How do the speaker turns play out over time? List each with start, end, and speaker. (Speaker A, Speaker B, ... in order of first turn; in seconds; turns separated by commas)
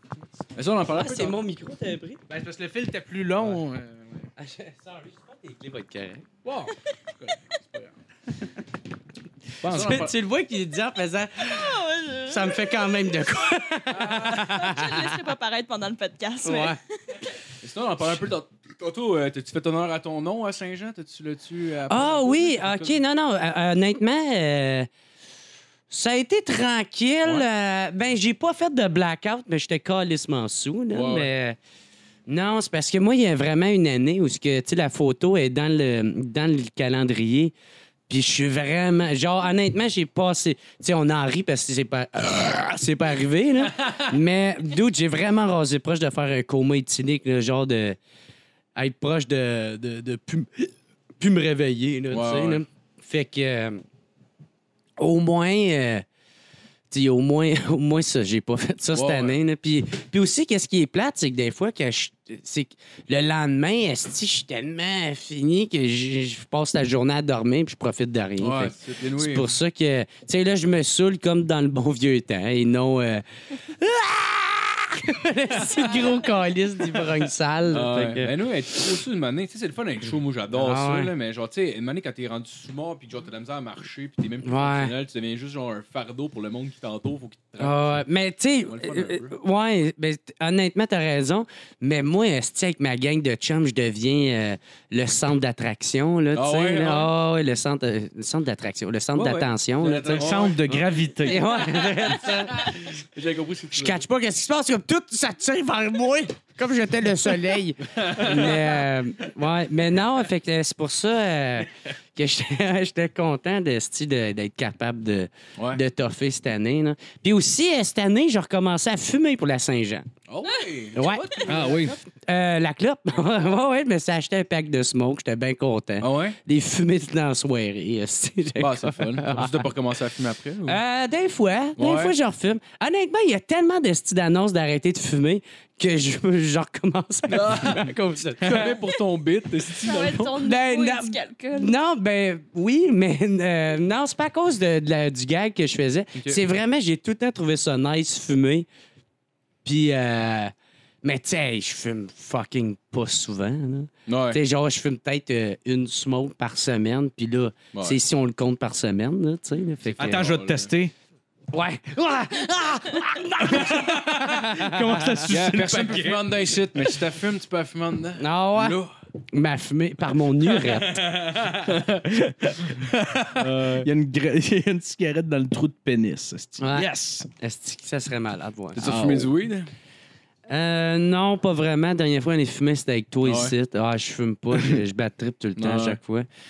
Speaker A: 0.5-1.4, Speaker B: 0.8-2.2, Speaker C: 2.3-4.3, Speaker B: 4.4-6.2, Speaker C: 6.4-7.9, Speaker C: 9.6-10.1, Speaker A: 9.7-10.1, Speaker B: 9.7-15.1, Speaker D: 11.4-12.6, Speaker A: 13.9-14.5, Speaker D: 14.1-16.8, Speaker B: 16.4-16.8, Speaker A: 17.6-23.0, Speaker B: 21.9-24.9, Speaker B: 25.9-31.6, Speaker A: 30.9-31.3, Speaker B: 32.3-37.5, Speaker B: 38.1-48.0, Speaker B: 48.8-53.8, Speaker A: 52.1-52.6, Speaker B: 55.0-56.0, Speaker B: 56.9-78.3, Speaker A: 58.9-59.4, Speaker A: 68.4-69.5, Speaker D: 75.6-75.9, Speaker A: 77.7-88.0, Speaker B: 80.5-81.1, Speaker B: 84.4-84.9, Speaker B: 87.6-103.0, Speaker A: 88.7-89.3, Speaker A: 96.3-97.1, Speaker A: 99.1-100.6, Speaker C: 100.1-101.7, Speaker A: 102.5-104.0, Speaker B: 103.7-120.1, Speaker A: 108.0-108.6, Speaker A: 115.6-115.8, Speaker A: 120.3-122.0, Speaker B: 120.9-129.7, Speaker C: 121.4-122.0, Speaker A: 126.0-126.4, Speaker A: 128.6-130.8, Speaker B: 130.6-138.8, Speaker A: 131.8-132.2, Speaker A: 137.3-140.3, Speaker D: 139.8-141.7, Speaker B: 140.4-148.7, Speaker A: 146.1-146.4, Speaker B: 149.6-160.4, Speaker A: 154.1-154.4, Speaker A: 157.7-158.0, Speaker A: 159.9-160.7, Speaker C: 160.0-160.9, Speaker B: 161.5-165.2, Speaker C: 163.4-167.0, Speaker A: 165.2-168.9, Speaker B: 168.2-171.0, Speaker C: 170.5-177.3, Speaker A: 171.5-172.1, Speaker A: 173.4-173.9, Speaker B: 176.6-179.3, Speaker A: 178.7-179.7, Speaker B: 180.5-186.2, Speaker A: 183.2-183.5, Speaker A: 185.6-186.0